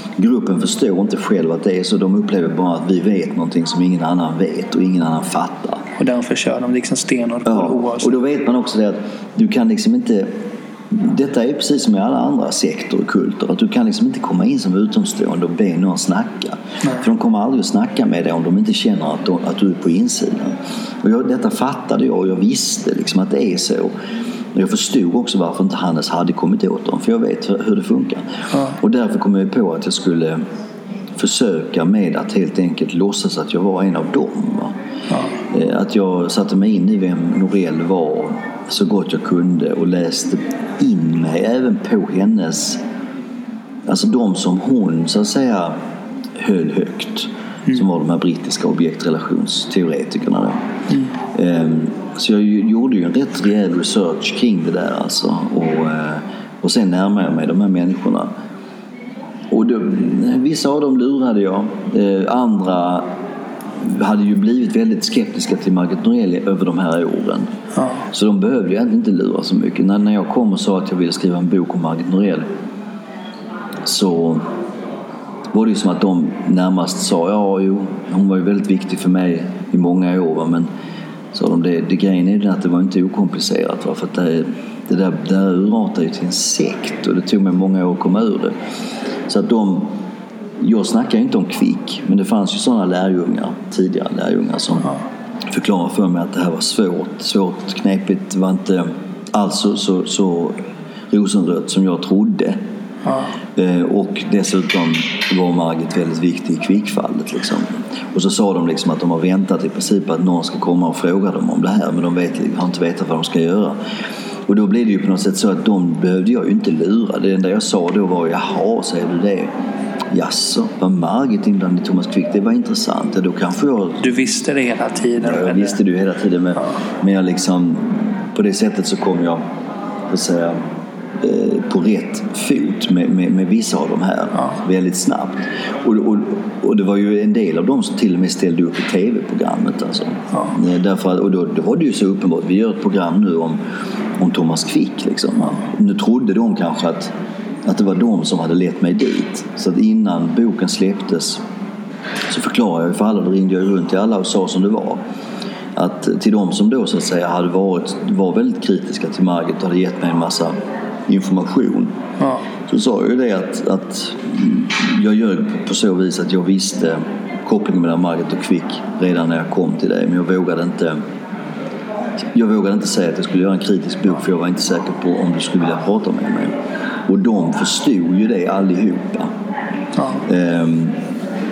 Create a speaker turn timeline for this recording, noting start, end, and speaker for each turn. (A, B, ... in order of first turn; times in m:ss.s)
0:00.2-0:05.8 A
0:06.0-0:08.1 B
0:07.4-0:10.3 A
0:10.9-0:23.9 A
0:24.5-0:30.4 A
0:31.2-0:34.7 A
0:35.5-0:42.8 A
0:43.9-0:45.7 A
0:46.4-0:50.6 A
0:51.3-0:58.3 A
0:59.5-1:03.0 A
1:03.8-1:07.5 A
1:07.8-1:08.0 B
1:08.1-1:12.4 A
1:13.8-1:14.4 A
1:15.5-1:20.7 A
1:21.3-1:28.5 A
1:29.3-1:29.9 A
1:30.6-1:35.0 A
1:35.5-1:40.6 A
1:41.1-1:42.6 A
1:43.0-1:43.3 B
1:43.6-1:53.7 A
1:54.5-1:59.5 A
2:00.1-2:04.0 A
2:04.0-2:05.8 B
2:05.2-2:09.4 A
2:10.1-2:10.6 A
2:11.2-2:23.6 A
2:24.2-2:27.1 A
2:27.6-2:31.4 A
2:32.3-2:35.0 A
2:35.7-2:40.5 A
2:41.1-2:41.9 A
2:42.2-2:42.4 B
2:42.7-2:51.0 A
2:52.3-2:56.5 A
2:57.0-2:59.3 A
3:00.0-3:00.2 B
3:00.2-3:01.0 A